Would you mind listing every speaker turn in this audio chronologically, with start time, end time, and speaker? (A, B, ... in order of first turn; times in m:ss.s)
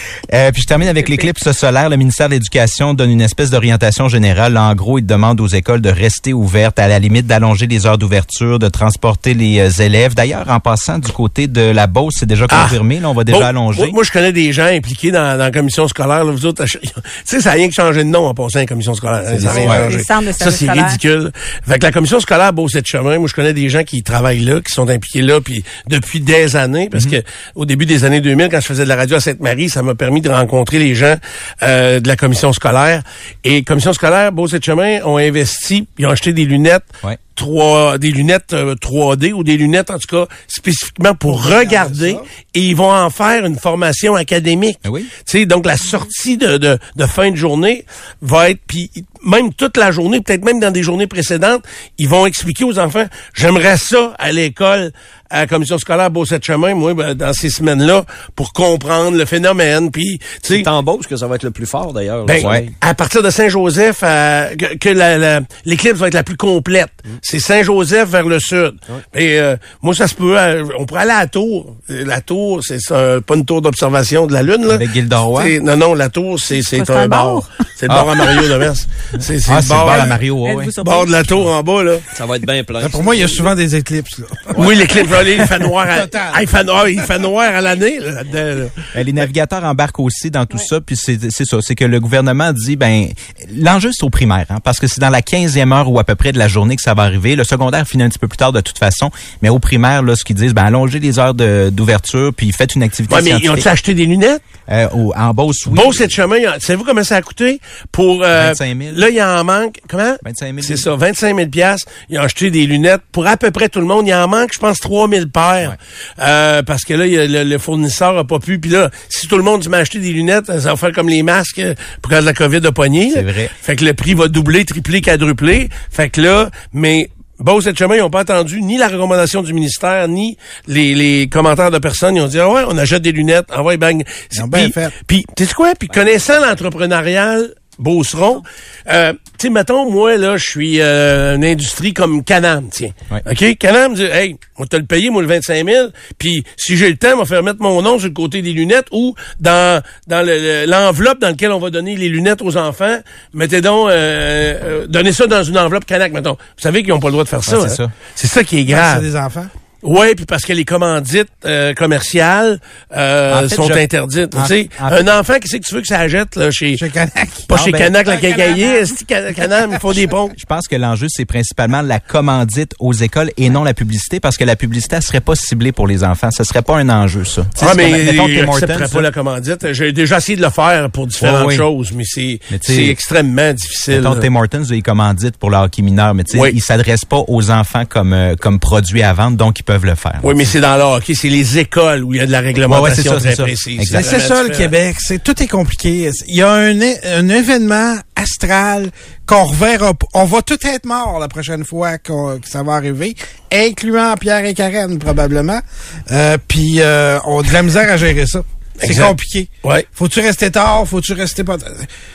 0:00.3-0:14.0 A
0:12.5-1:00.7 B
0:19.4-0:21.0 C
0:19.4-0:19.9 A
0:26.9-0:27.2 A
0:41.3-0:42.2 D
0:44.8-0:45.1 A
1:00.5-1:02.7 E
1:02.2-1:20.2 B
1:02.4-1:02.7 A
1:14.7-1:15.6 A
1:16.7-1:17.4 C
1:17.9-1:18.4 A
1:19.4-1:20.7 A
1:20.4-1:21.1 C
1:20.8-1:22.0 B
1:22.1-1:23.4 E
1:22.8-1:26.4 D
1:24.5-1:28.9 B
1:28.9-1:43.7 A
1:43.1-1:44.4 B
1:44.7-1:46.1 A
1:45.7-2:39.0 B
1:48.3-1:49.1 A
1:50.2-1:50.8 A
2:03.1-2:03.5 A
2:14.3-2:14.9 D
2:15.9-2:16.6 E
2:37.5-2:37.9 A
2:38.7-2:39.5 D
2:39.8-2:46.8 B
2:43.3-2:45.0 A
2:46.7-2:47.5 D
2:47.5-2:50.4 B
2:47.5-2:47.9 A
2:48.2-2:48.6 C
2:50.3-2:59.0 A
2:57.6-3:04.2 B
3:01.2-3:01.6 A
3:02.5-3:03.0 A
3:03.9-3:10.5 A
3:06.3-3:06.6 B
3:10.2-3:14.7 B
3:12.6-3:14.1 A
3:13.9-3:31.9 D
3:28.8-3:29.9 B